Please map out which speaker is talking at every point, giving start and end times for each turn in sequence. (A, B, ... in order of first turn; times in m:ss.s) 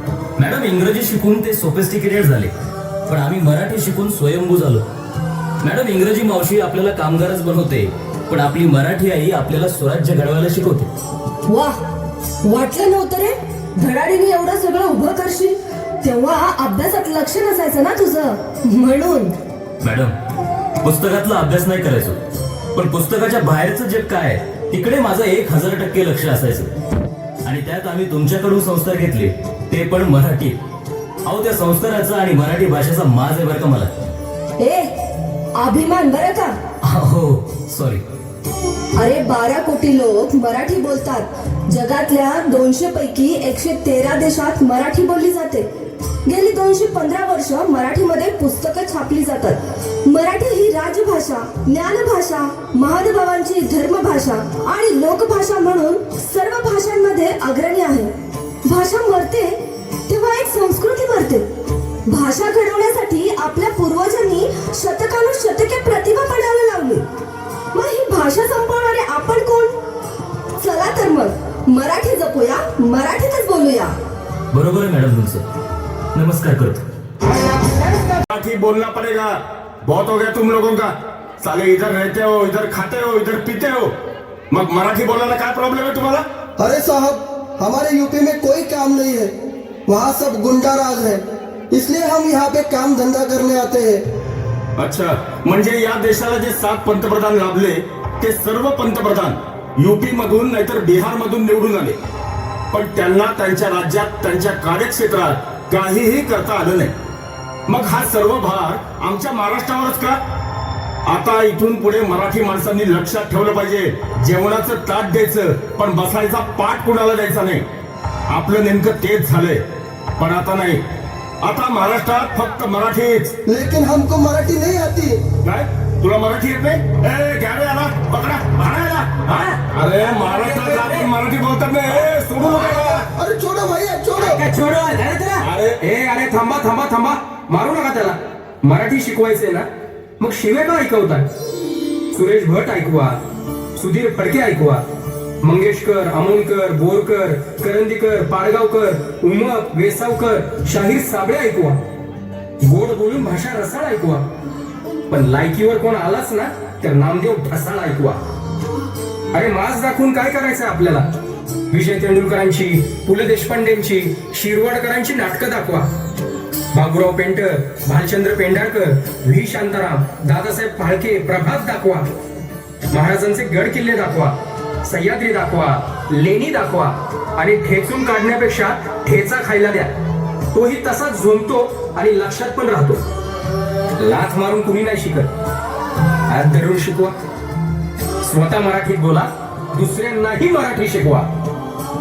0:00.4-0:02.5 A
0:03.1-0:04.8 A
0:05.6-0:10.9 A
0:11.5-0:11.8 B
0:12.4-0:19.3 B
0:19.8-0:20.1 A
0:20.8-0:22.2 A
0:22.7-0:26.7 A
0:27.4-0:30.6 A
0:31.2-0:33.9 A
0:34.6-0:34.9 B
0:35.6-0:36.5 B
0:36.8-0:38.0 A
0:39.0-0:45.6 B
0:46.3-0:58.1 B
0:58.7-0:59.6 B
1:00.1-1:01.4 B
1:02.1-1:07.0 B
1:07.7-1:09.7 B
1:10.6-1:13.9 B
1:14.5-1:15.4 A
1:16.1-1:16.8 A
1:18.3-1:19.3 C
1:19.8-1:23.9 C
1:24.5-1:26.2 C
1:26.6-1:29.3 D
1:29.9-1:34.0 D
1:34.8-1:42.0 C
1:42.7-1:46.9 C
1:47.7-1:50.2 C
1:51.1-1:57.6 C
1:58.3-1:59.6 C
2:00.2-2:00.8 C
2:01.4-2:03.3 C
2:03.4-2:05.2 D
2:05.4-2:13.1 C
2:09.7-2:11.1 E
2:12.5-2:14.4 D
2:14.2-2:19.6 E
2:15.4-2:15.8 C
2:20.2-2:21.3 E
2:22.1-2:23.2 E
2:23.8-2:24.8 E
2:25.4-2:31.8 E
2:32.6-2:34.2 E
2:35.1-2:38.2 E
2:39.3-2:41.1 E
2:41.7-2:45.9 E
2:46.7-2:52.1 E
2:52.9-2:59.9 E
3:00.5-3:03.0 E
3:04.0-3:05.3 E
3:06.3-3:07.1 E
3:08.2-3:11.3 E